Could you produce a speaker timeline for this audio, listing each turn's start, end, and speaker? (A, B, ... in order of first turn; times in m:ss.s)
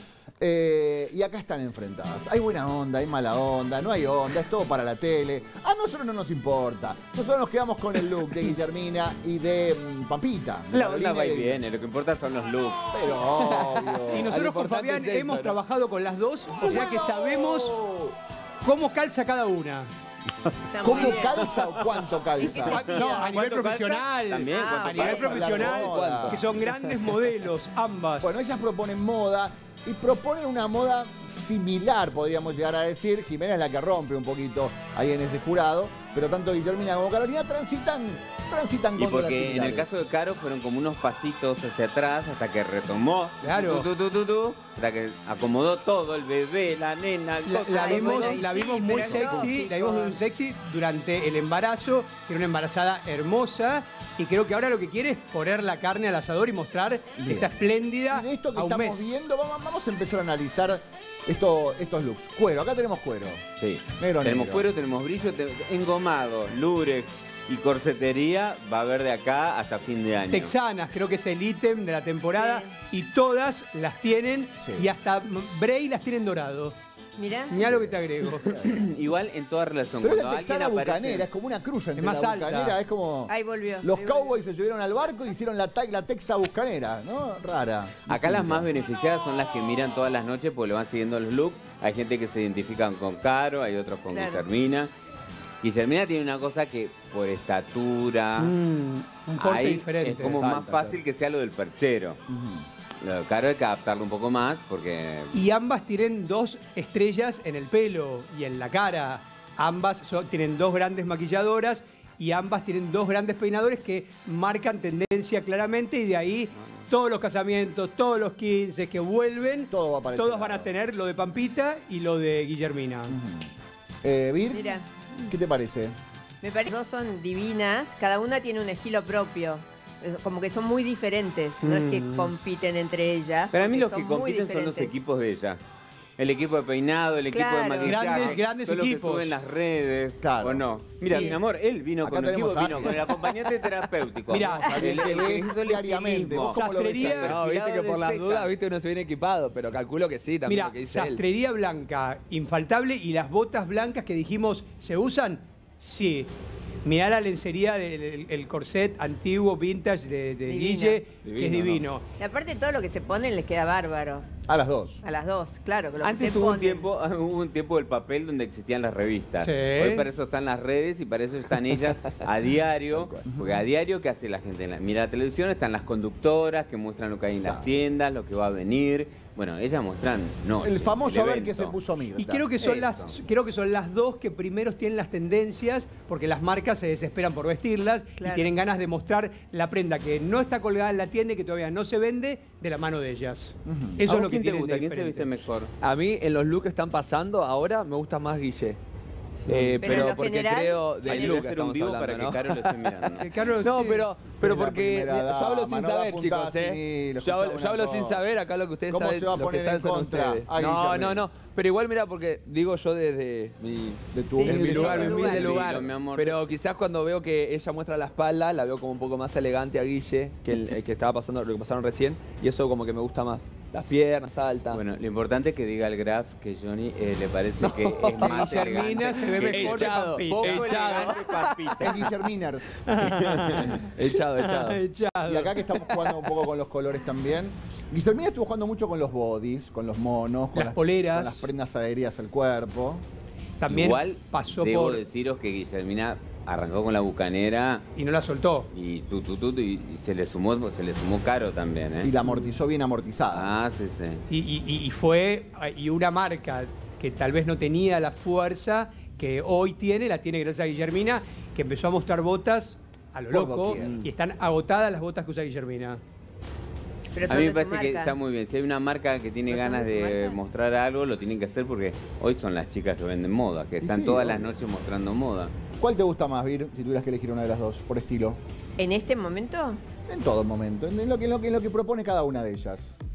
0:00.4-0:11.6 A
0:10.7-0:13.2 B
0:12.9-0:14.4 A
0:13.4-0:15.6 C
0:14.1-0:17.8 D
0:16.6-0:18.1 A
0:18.6-0:19.9 D
0:20.7-0:21.5 E
0:20.8-0:22.9 A
0:20.9-0:21.2 D
0:21.4-0:22.0 B
0:22.4-0:23.3 E
0:22.6-0:28.4 D
0:22.8-0:25.8 B
0:24.5-0:25.5 E
0:25.2-0:26.4 A
0:25.5-0:26.9 C
0:28.2-0:39.9 A
0:39.0-0:48.5 B
0:43.4-0:43.9 D
0:47.4-0:59.2 D
0:47.7-0:50.2 E
0:57.2-0:57.5 A
0:58.1-1:03.4 A
1:03.6-1:10.5 B
1:04.0-1:04.7 A
1:10.3-1:16.8 D
1:12.3-1:12.7 E
1:14.6-1:14.9 A
1:17.2-1:17.6 E
1:17.5-1:18.5 D
1:17.7-1:18.9 A
1:18.6-1:21.3 B
1:20.0-1:28.7 A
1:22.0-1:22.8 D
1:23.3-1:24.3 E
1:28.1-1:34.9 B
1:34.1-1:34.4 E
1:35.6-1:38.5 B
1:38.4-1:40.5 D
1:39.4-1:42.2 B
1:40.3-1:41.0 C
1:42.3-1:42.7 A
1:43.0-1:45.4 B
1:45.3-2:03.2 D
1:56.6-1:56.9 B
1:59.7-2:00.7 A
2:03.1-2:03.5 A
2:04.0-2:06.0 A
2:04.5-2:04.9 E
2:06.4-2:15.0 E
2:11.6-2:12.3 B
2:13.5-2:15.6 B
2:16.2-2:28.5 B
2:17.3-2:18.4 E
2:17.8-2:19.3 D
2:20.2-2:20.6 A
2:21.1-2:21.4 E
2:22.0-2:23.1 A
2:24.3-2:24.8 D
2:24.6-2:27.4 A
2:26.4-2:27.4 D
2:27.2-2:31.2 C
2:30.5-2:36.3 D
2:36.8-2:42.0 D
2:40.5-2:41.0 E
2:41.3-2:41.8 B
2:42.2-2:44.3 E
2:44.5-2:45.0 A
2:45.0-2:46.8 E
2:46.0-3:01.8 B
2:49.4-2:50.0 D
2:53.3-2:53.6 A
3:00.6-3:03.1 A
3:02.2-3:15.4 D
3:08.2-3:08.5 E
3:13.7-3:14.0 A
3:14.1-3:15.7 B
3:15.8-3:18.8 C
3:19.5-3:44.8 C
3:19.5-3:19.9 A
3:19.8-3:21.4 E
3:21.0-3:23.3 B
3:23.2-3:24.1 D
3:24.4-3:28.2 A
3:28.9-3:31.2 A
3:34.1-3:35.6 A
3:34.3-3:35.5 E
3:35.2-3:36.4 B
3:44.7-3:52.1 B
3:47.6-3:48.5 C
3:48.2-3:51.2 D
3:49.3-3:51.5 C
3:51.8-3:52.8 A
3:52.8-3:56.2 D
3:53.0-3:53.8 B
3:53.8-3:54.8 C
3:55.3-4:03.0 A
4:00.6-4:01.5 D
4:03.6-4:05.0 D
4:03.7-4:07.9 B
4:08.0-4:08.7 D
4:08.7-4:12.1 B
4:12.0-4:13.5 A
4:13.3-4:14.2 B
4:14.3-4:26.0 D
4:23.3-4:24.1 A
4:27.1-4:28.1 E
4:27.3-4:35.5 B
4:29.5-4:30.4 E
4:33.8-4:34.5 A
4:35.8-4:38.4 A
4:38.8-4:39.8 E
4:40.1-4:42.9 A